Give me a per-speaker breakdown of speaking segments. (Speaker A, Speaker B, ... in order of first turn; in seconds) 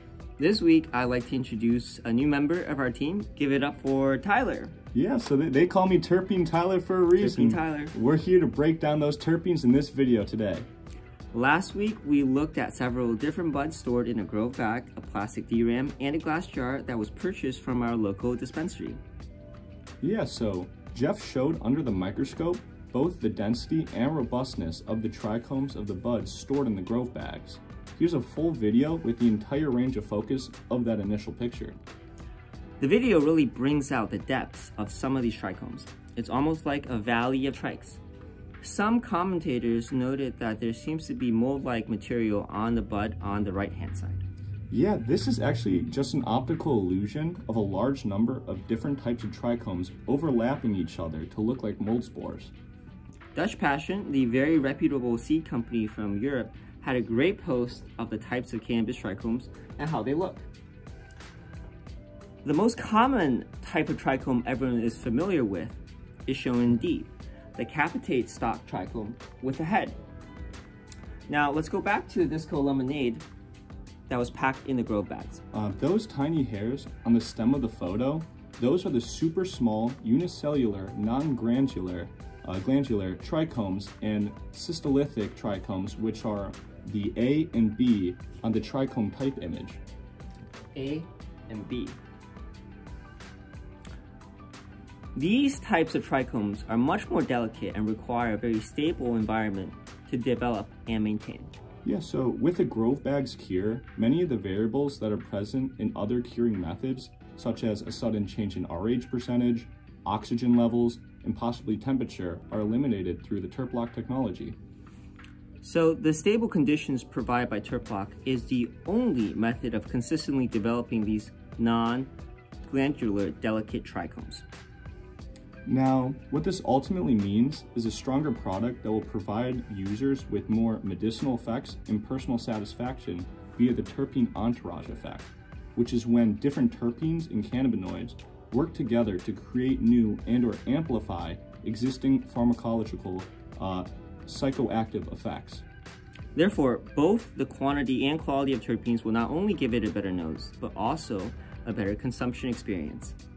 Speaker A: 0.4-4.8, 7.2-7.9, 11.3-19.0, 32.8-38.0, 38.6-44.2, 53.3-60.5, 62.4-70.0, 71.3-73.2, 74.1-75.4, 90.7-92.0, 95.1-101.5, 115.6-122.1, 122.6-124.5, 146.3-153.2
Speaker B: 4.9-10.7, 20.0-31.8, 44.7-52.5, 75.5-89.8, 101.8-114.6, 125.7-145.6